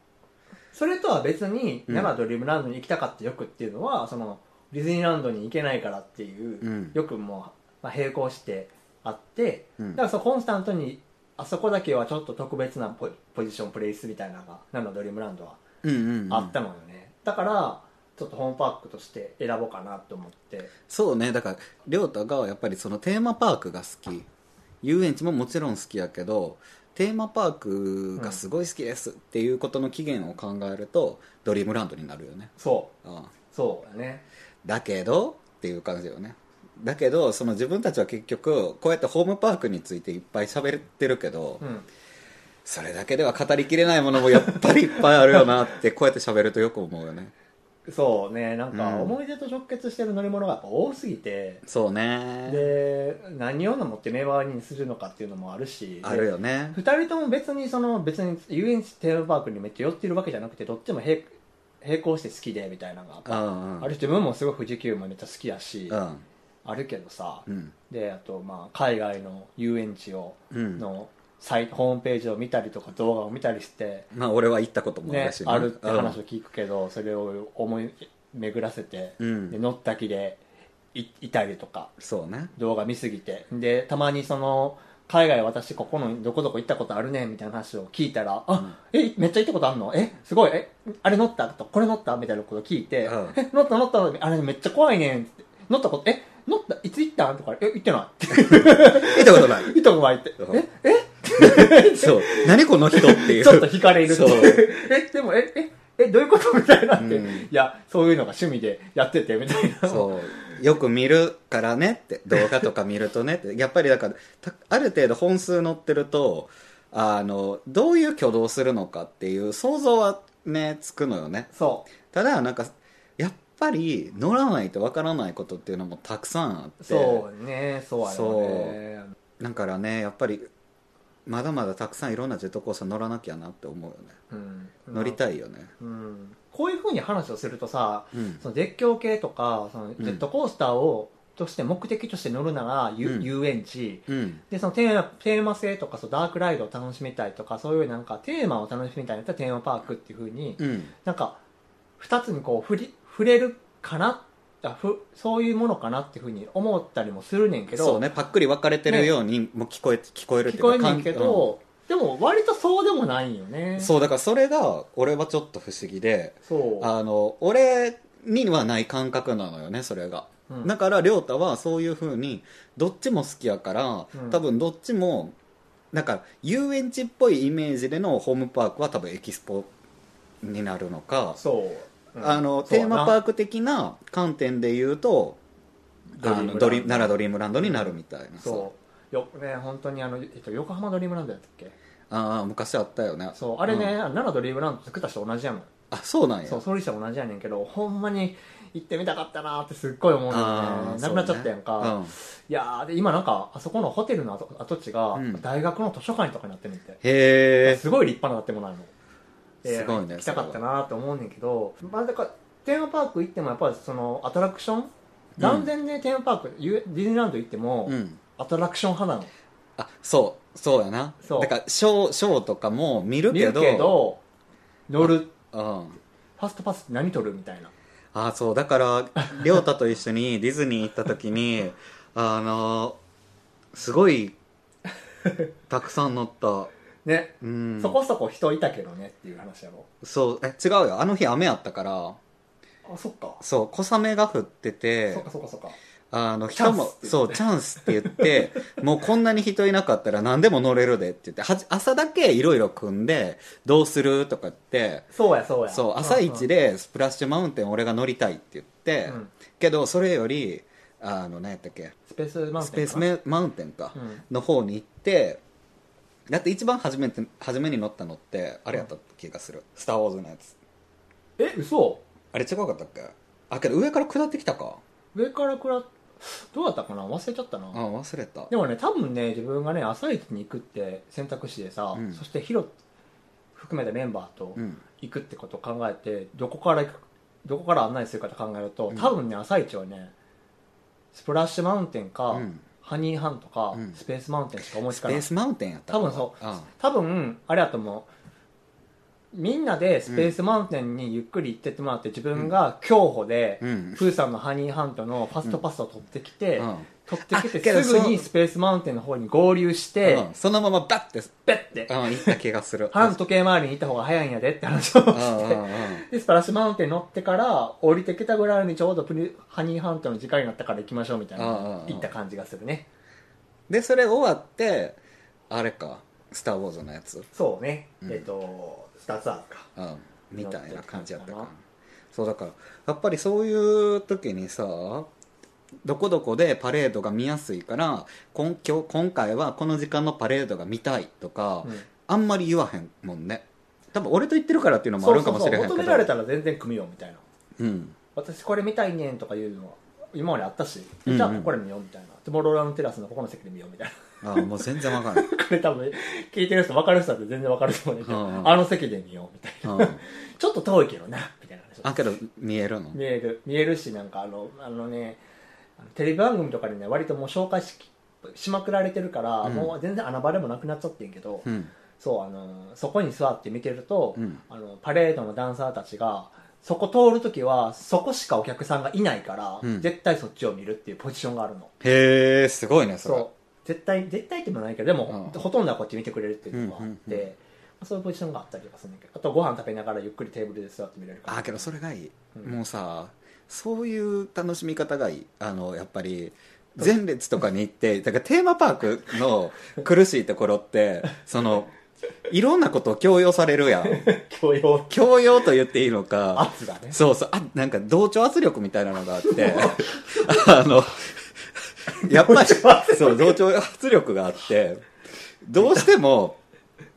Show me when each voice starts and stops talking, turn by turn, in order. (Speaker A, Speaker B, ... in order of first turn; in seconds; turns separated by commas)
Speaker A: 0.7-15.6, Speaker B: 6.6-7.0, Speaker B: 15.8-16.5, Speaker A: 16.3-20.7, Speaker B: 20.9-24.3, Speaker B: 24.8-33.3, Speaker A: 32.6-32.9, Speaker A: 33.5-34.2, Speaker B: 34.6-41.6, Speaker B: 42.6-47.3, Speaker A: 47.9-51.6, Speaker B: 48.7-49.1, Speaker B: 51.6-52.7, Speaker A: 52.5-66.0, Speaker B: 56.0-56.8, Speaker B: 63.2-63.9, Speaker B: 65.9-66.2, Speaker A: 66.6-74.1, Speaker B: 67.5-67.7, Speaker B: 70.5-70.8, Speaker B: 74.1-76.2, Speaker A: 75.0-80.4, Speaker B: 79.2-79.6, Speaker A: 80.9-81.9, Speaker B: 82.0-82.5, Speaker A: 82.5-110.6, Speaker B: 93.0-93.4, Speaker B: 98.3-99.8, Speaker B: 101.4-104.7, Speaker B: 107.0-107.5, Speaker B: 109.9-127.2, Speaker A: 121.5-121.9, Speaker A: 126.8-129.1, Speaker B: 128.0-128.8, Speaker B: 129.4-130.5, Speaker B: 131.2-134.2, Speaker A: 134.3-135.2, Speaker B: 134.9-135.7, Speaker A: 135.8-151.4, Speaker B: 138.1-138.4, Speaker B: 143.0-143.3, Speaker B: 144.1-144.4, Speaker B: 150.6-150.9, Speaker A: 152.0-158.0, Speaker B: 157.7-161.5, Speaker A: 160.4-163.9, Speaker B: 163.8-175.3, Speaker A: 166.5-166.9, Speaker A: 174.1-174.4, Speaker B: 175.9-179.7, Speaker B: 180.4-181.4, Speaker A: 181.4-183.2, Speaker B: 182.2-185.4, Speaker A: 186.1-191.7, Speaker B: 186.2-188.7, Speaker B: 192.1-193.9, Speaker A: 193.3-195.7, Speaker B: 195.9-196.6, Speaker A: 196.4-207.0, Speaker B: 200.3-202.1, Speaker B: 205.1-205.4, Speaker B: 207.0-207.8, Speaker A: 207.6-208.9, Speaker B: 209.6-210.6, Speaker A: 209.6-219.3, Speaker B: 215.4-215.7, Speaker B: 217.9-218.2, Speaker B: 219.8-224.0, Speaker A: 221.2-221.5, Speaker A: 223.3-224.2, Speaker A: 224.9-225.3, Speaker B: 225.0-226.0, Speaker A: 226.4-227.7, Speaker B: 228.1-233.0, Speaker B: 233.7-234.3, Speaker B: 235.7-236.7, Speaker A: 237.0-239.9, Speaker B: 237.4-238.0, Speaker B: 240.0-242.2, Speaker A: 242.9-243.4, Speaker B: 243.4-245.2, Speaker A: 245.1-245.8, Speaker B: 246.1-255.1, Speaker A: 246.5-248.4, Speaker A: 255.1-256.4, Speaker B: 255.7-261.9, Speaker A: 262.1-263.1, Speaker B: 262.6-265.4, Speaker A: 263.9-264.2, Speaker B: 266.3-270.6, Speaker A: 271.4-272.0, Speaker B: 272.3-274.8, Speaker A: 275.1-277.8, Speaker B: 277.7-278.5, Speaker A: 278.5-282.7, Speaker B: 281.9-282.2, Speaker A: 283.5-290.1, Speaker B: 284.6-284.8, Speaker A: 291.1-295.3, Speaker B: 292.3-292.6, Speaker B: 294.9-296.7, Speaker A: 295.9-298.1, Speaker A: 299.3-310.2, Speaker B: 300.1-300.3, Speaker B: 303.6-304.0, Speaker B: 306.6-308.2, Speaker B: 310.0-313.2, Speaker A: 311.4-312.4, Speaker A: 312.9-322.9, Speaker B: 315.1-316.0, Speaker B: 321.4-322.1, Speaker B: 323.7-325.0, Speaker B: 325.5-327.3, Speaker A: 327.3-329.7, Speaker B: 329.8-331.6, Speaker A: 330.4-331.5, Speaker B: 332.1-335.1, Speaker B: 335.8-346.1, Speaker A: 345.0-347.2, Speaker B: 347.6-347.9, Speaker A: 348.1-362.1, Speaker B: 351.1-351.5, Speaker B: 354.2-355.3, Speaker B: 358.0-358.6, Speaker B: 359.6-360.0, Speaker B: 361.8-363.0, Speaker A: 362.9-365.2, Speaker A: 365.8-371.5, Speaker B: 369.4-369.7, Speaker B: 371.4-371.7, Speaker A: 372.0-381.7, Speaker B: 379.6-379.9, Speaker B: 381.8-383.2, Speaker A: 383.0-391.7, Speaker B: 385.1-385.4, Speaker B: 386.5-387.2, Speaker B: 391.3-401.7, Speaker B: 402.3-404.0, Speaker A: 403.8-404.9, Speaker B: 404.9-414.8, Speaker A: 406.3-407.0, Speaker A: 409.3-410.2, Speaker A: 411.9-413.4, Speaker B: 415.4-416.4